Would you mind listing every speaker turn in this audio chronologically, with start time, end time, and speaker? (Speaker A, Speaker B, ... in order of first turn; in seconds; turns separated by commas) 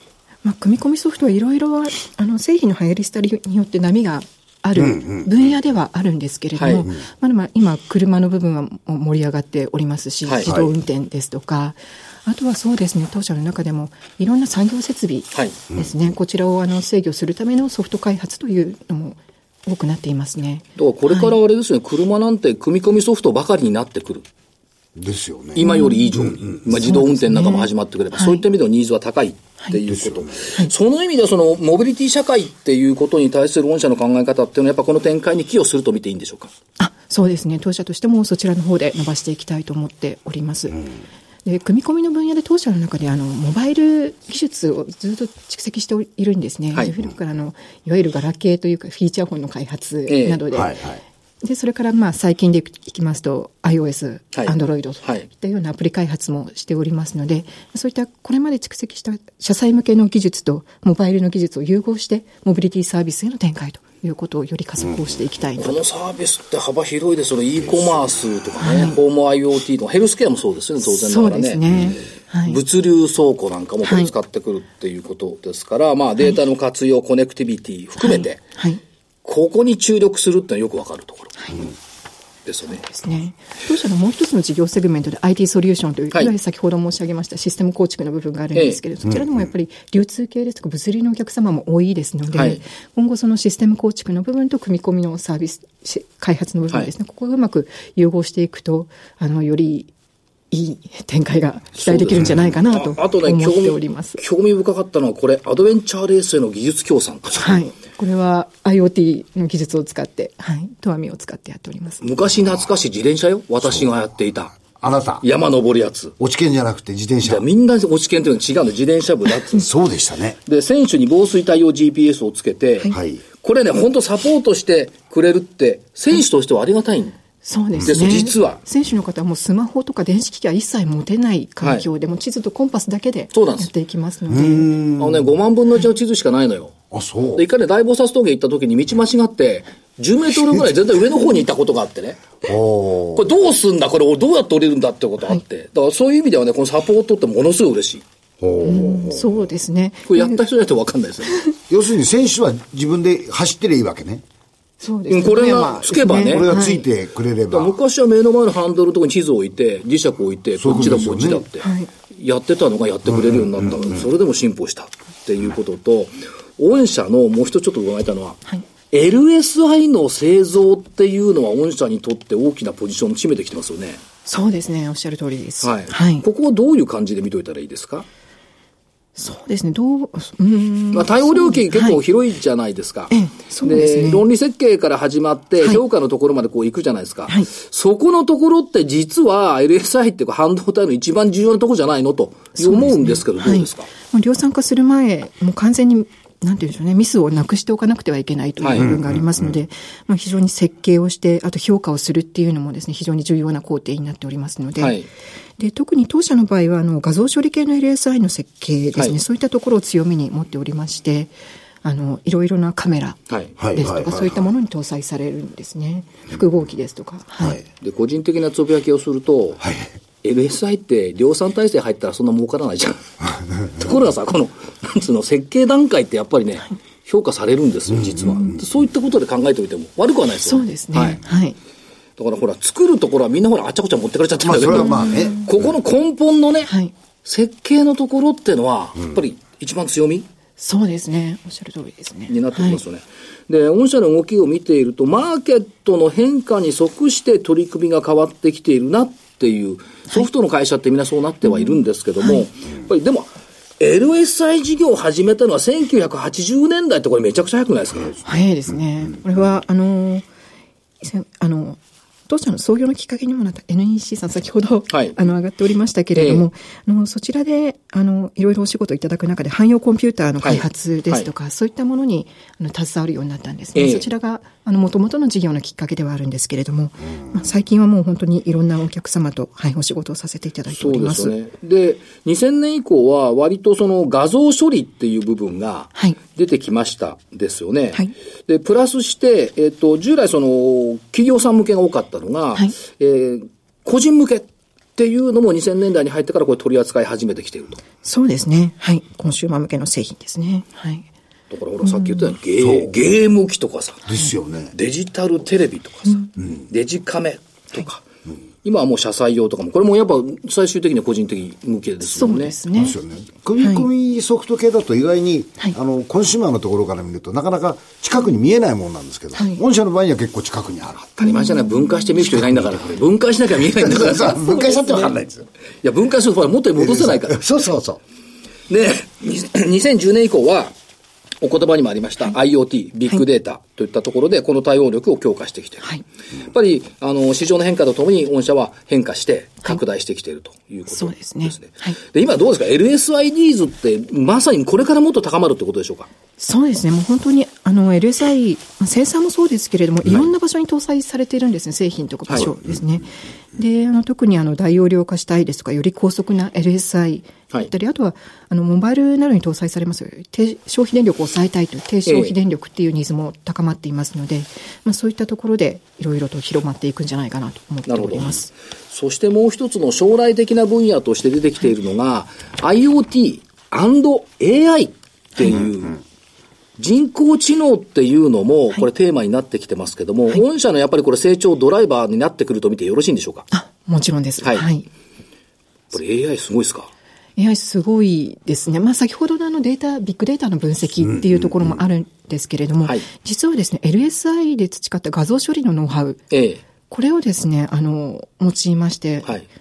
Speaker A: 0.4-21.4, Speaker B: 4.8-5.4, Speaker C: 6.5-6.9, Speaker C: 10.2-10.5, Speaker C: 20.8-24.2, Speaker B: 24.9-26.6, Speaker C: 25.6-36.5, Speaker A: 25.6-28.4, Speaker B: 29.9-30.4, Speaker A: 36.8-40.9, Speaker A: 41.4-50.8, Speaker C: 50.1-50.4, Speaker B: 50.5-51.0, Speaker A: 51.4-65.8, Speaker C: 54.3-55.2, Speaker C: 65.6-71.6, Speaker A: 68.6-69.0, Speaker A: 70.8-72.6, Speaker C: 72.5-78.4, Speaker A: 73.8-74.1, Speaker A: 78.0-78.8, Speaker C: 79.2-81.3, Speaker C: 82.4-82.8, Speaker A: 82.7-99.9, Speaker C: 92.3-92.6, Speaker A: 100.5-104.2, Speaker C: 101.8-107.6, Speaker A: 107.4-112.0, Speaker C: 112.0-114.6, Speaker B: 114.6-115.2, Speaker C: 115.2-116.1, Speaker B: 116.2-117.5, Speaker C: 117.2-119.7, Speaker B: 119.5-120.4, Speaker C: 120.5-127.2, Speaker B: 122.9-123.2, Speaker A: 127.4-134.7, Speaker B: 127.8-128.2, Speaker C: 127.8-128.6, Speaker C: 131.6-131.8, Speaker C: 133.3-133.7, Speaker B: 134.3-135.3, Speaker C: 135.0-136.8, Speaker B: 136.9-137.4, Speaker C: 137.3-142.4, Speaker B: 142.4-143.3, Speaker C: 143.2-148.0, Speaker B: 148.4-149.4, Speaker A: 148.6-150.4, Speaker C: 150.1-151.4, Speaker B: 151.7-154.2, Speaker A: 154.8-156.8, Speaker C: 155.1-156.5, Speaker B: 156.2-157.8, Speaker C: 157.5-174.0, Speaker B: 160.6-161.5, Speaker A: 161.6-161.9, Speaker A: 174.2-176.2, Speaker C: 175.6-178.1, Speaker A: 179.2-182.0, Speaker C: 180.9-193.9, Speaker A: 183.1-184.2, Speaker A: 192.6-205.0, Speaker C: 198.6-198.9, Speaker B: 198.8-199.5, Speaker C: 204.8-205.1, Speaker A: 205.6-211.3, Speaker A: 211.8-213.2, Speaker B: 213.6-214.4, Speaker A: 213.7-217.6, Speaker C: 217.8-219.6, Speaker B: 219.6-219.9, Speaker C: 220.2-223.1, Speaker C: 223.7-231.2, Speaker B: 227.9-228.6, Speaker A: 230.4-231.6, Speaker C: 232.2-236.7, Speaker B: 234.4-235.4, Speaker A: 234.7-235.5, Speaker A: 236.7-236.9, Speaker C: 237.2-240.2, Speaker A: 240.6-242.8, Speaker C: 242.3-258.2, Speaker A: 251.4-252.4, Speaker A: 258.2-260.3, Speaker A: 261.0-281.3, Speaker C: 264.9-265.1, Speaker C: 266.1-266.4, Speaker C: 270.4-271.3, Speaker C: 273.7-274.1, Speaker C: 280.7-297.8, Speaker A: 298.0-301.1, Speaker C: 301.5-304.1, Speaker A: 301.8-302.4, Speaker B: 302.6-302.9, Speaker B: 304.1-304.7, Speaker C: 304.7-308.0, Speaker C: 308.6-312.6, Speaker A: 312.0-313.0, Speaker B: 312.8-321.3, Speaker A: 313.6-313.9, Speaker A: 319.3-319.6, Speaker C: 321.2-324.6, Speaker A: 321.2-322.1, Speaker B: 322.2-322.9, Speaker B: 323.7-325.5, Speaker C: 325.8-327.4, Speaker B: 326.8-328.0, Speaker C: 328.7-330.7, Speaker C: 331.4-335.9, Speaker C: 336.5-346.1, Speaker A: 340.9-342.0, Speaker A: 346.4-368.5, Speaker C: 362.1-362.3, Speaker C: 367.9-368.4, Speaker C: 368.9-376.0, Speaker C: 376.8-383.5, Speaker A: 383.5-384.9, Speaker C: 385.9-386.9, Speaker A: 387.4-396.2, Speaker B: 391.0-391.8, Speaker C: 396.3-396.6, Speaker A: 396.9-399.4